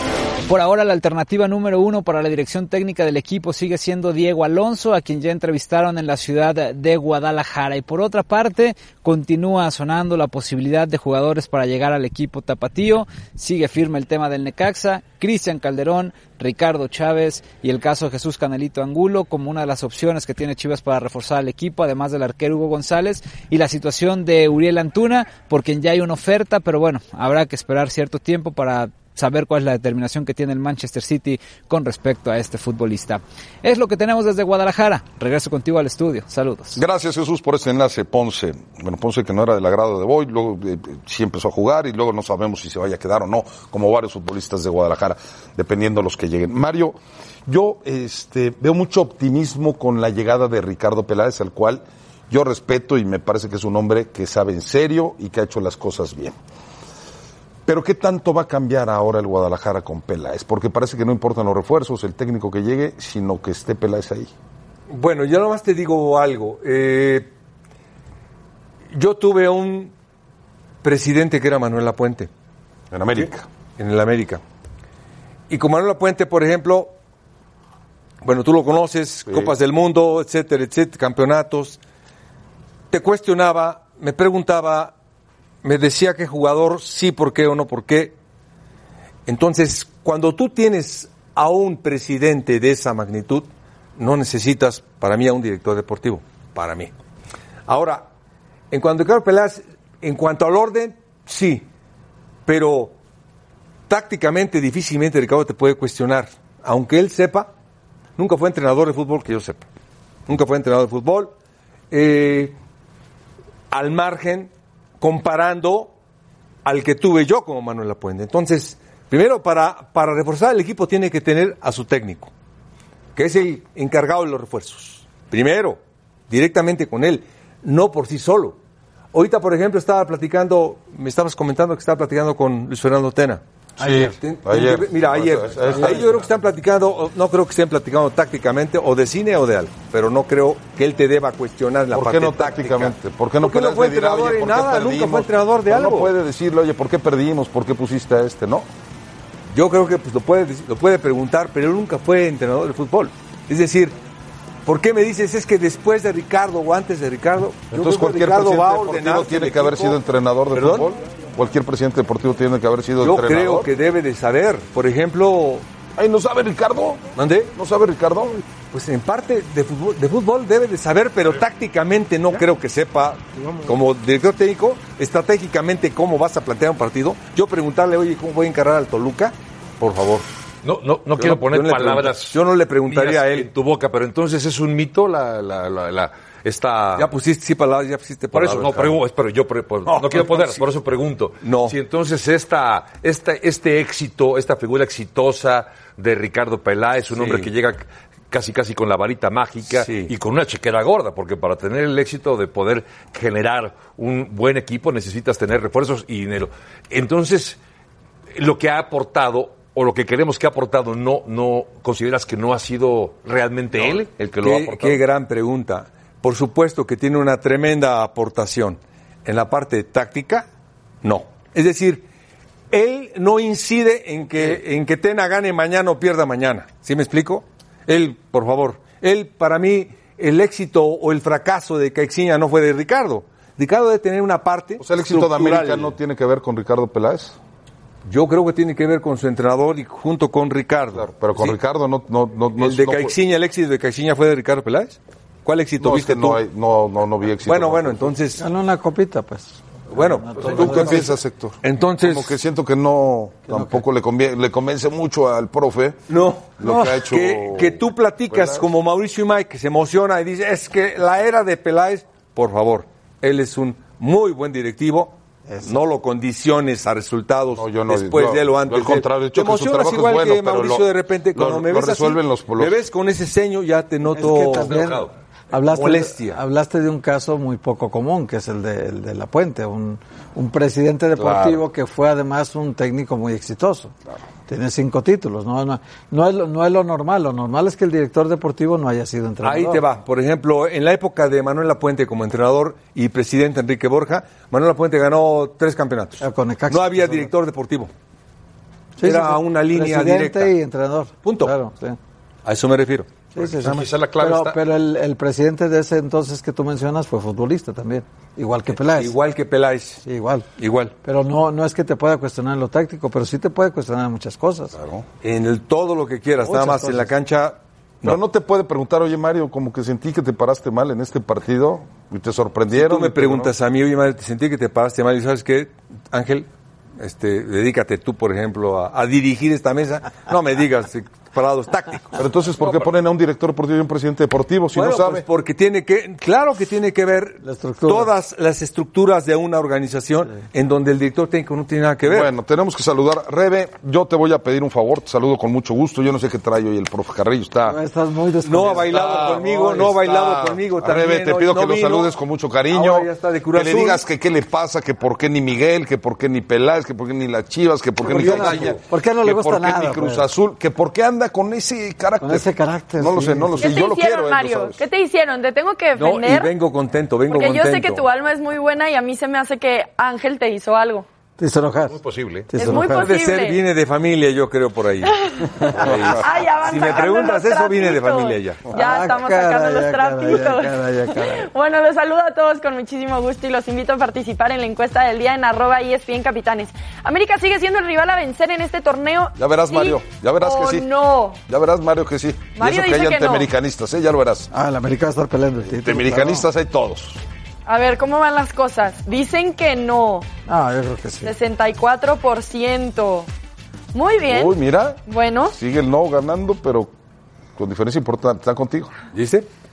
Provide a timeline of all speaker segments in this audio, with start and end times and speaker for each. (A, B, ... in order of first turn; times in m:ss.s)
0:00.5-0:36.8 A
0:36.7-0:56.4 B
0:57.6-1:04.3 B
1:04.9-1:07.3 C
1:08.9-1:09.9 C
1:10.8-1:12.3 C
1:12.9-1:13.5 B
1:13.8-1:14.4 C
1:15.5-1:16.9 C
1:18.2-1:21.8 C
1:19.3-1:19.5 B
1:22.9-1:24.9 C
1:25.6-1:28.2 C
1:29.3-1:36.9 C
1:37.7-1:38.1 C
1:38.7-1:41.7 C
1:42.4-1:42.9 C
1:43.9-1:47.5 C
1:48.2-1:49.6 C
1:50.3-1:51.3 C
1:51.9-1:52.6 C
1:53.7-1:55.9 C
1:56.6-2:02.3 C
2:03.1-2:05.8 C
2:06.3-2:08.6 C
2:09.1-2:26.1 C
2:13.8-2:16.2 B
2:13.8-2:14.1 D
2:21.9-2:28.7 B
2:29.5-2:33.9 C
2:34.6-2:40.0 C
2:37.7-2:43.7 B
2:40.5-2:40.9 C
2:43.0-2:45.6 C
2:46.0-2:47.0 B
2:47.2-2:47.5 C
2:47.5-2:48.4 B
2:48.7-3:00.3 C
3:00.6-3:07.1 E
3:01.2-3:03.5 C
3:07.0-3:09.0 C
3:08.3-3:27.6 E
3:09.8-3:10.6 C
3:11.4-3:11.7 C
3:17.1-3:17.5 C
3:19.7-3:20.1 C
3:28.3-3:35.0 E
3:34.4-3:40.4 C
3:41.0-3:42.0 C
3:42.7-3:55.9 C
3:54.8-3:57.4 B
3:58.0-4:01.6 C
4:00.9-4:03.1 B
4:02.6-4:06.4 C
4:05.8-4:08.1 B
4:07.4-4:08.4 C
4:08.4-4:11.1 D
4:09.9-4:12.4 C
4:10.4-4:16.0 B
4:13.5-4:13.8 D
4:16.1-4:34.7 C
4:16.6-4:18.7 B
4:27.5-4:32.8 B
4:34.1-4:43.9 D
4:34.5-4:35.1 E
4:35.7-4:36.4 C
4:41.2-4:41.6 B
4:44.5-4:49.8 D
4:49.4-4:57.9 C
4:56.2-4:57.3 D
4:59.0-5:02.0 D
4:59.0-5:00.5 C
5:01.2-5:01.5 C
5:02.4-5:03.1 C
5:03.3-5:09.1 D
5:03.4-5:04.6 E
5:08.7-5:10.0 C
5:10.0-5:10.4 D
5:10.6-5:10.9 C
5:11.0-5:14.7 D
5:14.8-5:15.0 B
5:15.2-5:18.2 C
5:16.4-5:17.1 D
5:18.0-5:23.5 B
5:22.7-5:26.5 C
5:27.0-5:32.2 C
5:32.2-5:35.2 B
5:34.7-5:42.3 C
5:37.4-5:38.1 D
5:42.0-5:47.8 B
5:47.6-5:49.4 D
5:48.4-5:52.1 C
5:48.8-6:04.8 B
5:52.7-5:54.0 C
5:58.0-6:00.2 D
5:58.1-5:58.7 C
6:02.2-6:03.7 D
6:03.6-6:06.5 F
6:06.0-6:08.0 C
6:07.3-6:11.0 F
6:11.4-6:12.0 D
6:11.9-6:12.5 E
6:12.5-6:13.1 D
6:12.6-6:13.6 F
6:12.9-6:18.7 C
6:15.1-6:15.5 F
6:16.2-6:31.4 F
6:18.7-6:21.5 D
6:29.4-6:30.9 B
6:31.5-6:34.5 B
6:32.5-6:33.5 F
6:34.5-6:36.4 D
6:35.6-6:37.2 B
6:37.6-6:40.3 F
6:40.5-6:41.3 D
6:41.2-6:43.3 F
6:43.9-6:45.6 F
6:44.2-6:46.9 B
6:47.6-6:48.9 B
6:49.1-6:49.4 C